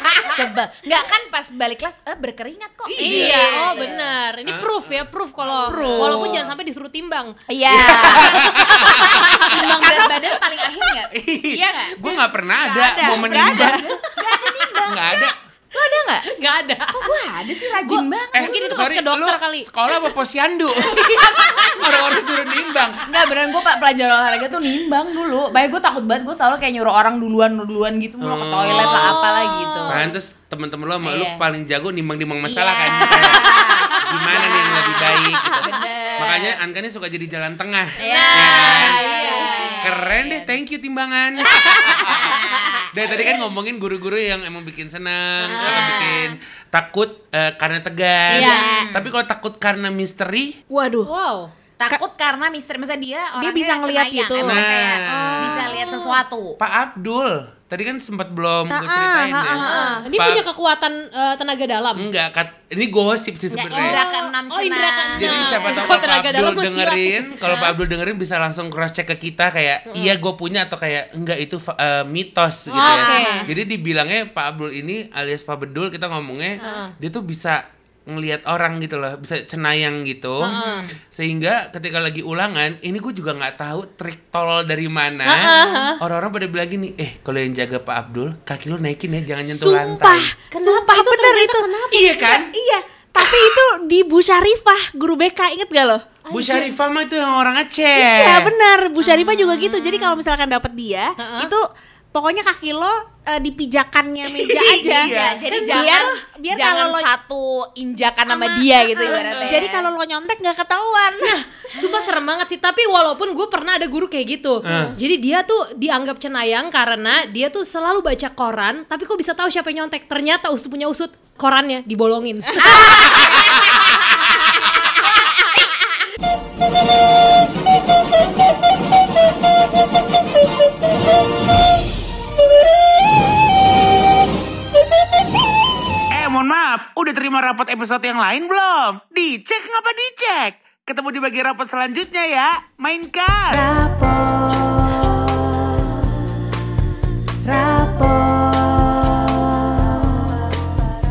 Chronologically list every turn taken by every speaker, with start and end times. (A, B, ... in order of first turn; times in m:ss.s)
0:00.2-0:04.1 A
0:02.9-0:03.8 B
0:03.0-0:07.4 C
0:04.4-0:06.5 B
0:05.5-0:06.5 A
0:07.5-0:16.3 A
0:07.7-0:09.8 B
0:08.4-0:10.3 D
0:11.1-0:13.9 B
0:12.7-0:13.9 D
0:14.9-0:15.3 B
0:16.2-0:17.1 C
0:16.9-0:18.5 A
0:17.7-0:20.1 C
0:18.3-0:23.1 B
0:20.7-0:22.2 C
0:23.1-0:30.1 A
0:28.2-0:29.2 B
0:28.7-0:30.1 C
0:29.9-0:39.0 B
0:31.0-0:31.4 A
0:32.5-0:36.6 A
0:38.0-0:40.6 A
0:38.0-0:39.8 C
0:38.1-0:39.7 D
0:39.8-0:50.6 B
0:41.4-0:42.1 D
0:41.5-0:43.3 A
0:45.4-0:46.4 A
0:45.5-0:46.3 D
0:48.3-0:48.9 D
0:48.3-0:49.1 A
0:50.7-0:51.1 D
0:51.1-0:51.5 C
0:51.8-0:56.6 A
0:53.4-0:54.6 D
0:54.4-0:55.9 B
0:55.2-0:56.0 C
0:56.6-0:59.6 B
0:58.7-1:00.0 D
0:59.5-1:00.0 A
0:59.6-1:02.1 C
1:00.1-1:00.5 B
1:02.0-1:04.0 B
1:03.5-1:06.0 A
1:03.7-1:07.7 C
1:05.2-1:20.6 B
1:09.9-1:10.2 C
1:12.7-1:13.5 C
1:12.8-1:13.5 D
1:12.9-1:13.5 A
1:16.6-1:16.9 C
1:20.4-1:20.9 C
1:20.4-1:21.0 A
1:21.1-1:30.3 B
1:25.2-1:26.0 C
1:25.5-1:25.9 D
1:29.4-1:36.2 D
1:30.5-1:32.2 C
1:31.9-1:32.5 B
1:33.2-1:33.6 B
1:36.3-1:36.7 C
1:36.3-1:38.5 B
1:37.9-1:45.1 D
1:39.0-1:40.1 C
1:41.2-1:41.5 C
1:44.3-1:49.9 A
1:44.9-1:45.4 B
1:45.5-1:46.2 C
1:45.7-1:47.1 D
1:48.3-1:51.4 D
1:49.0-1:49.6 B
1:51.2-2:03.1 C
1:54.6-1:55.0 B
2:02.7-2:03.3 A
2:02.8-2:03.7 B
2:16.1-2:23.6 B
2:23.5-2:26.4 D
2:27.4-2:30.8 D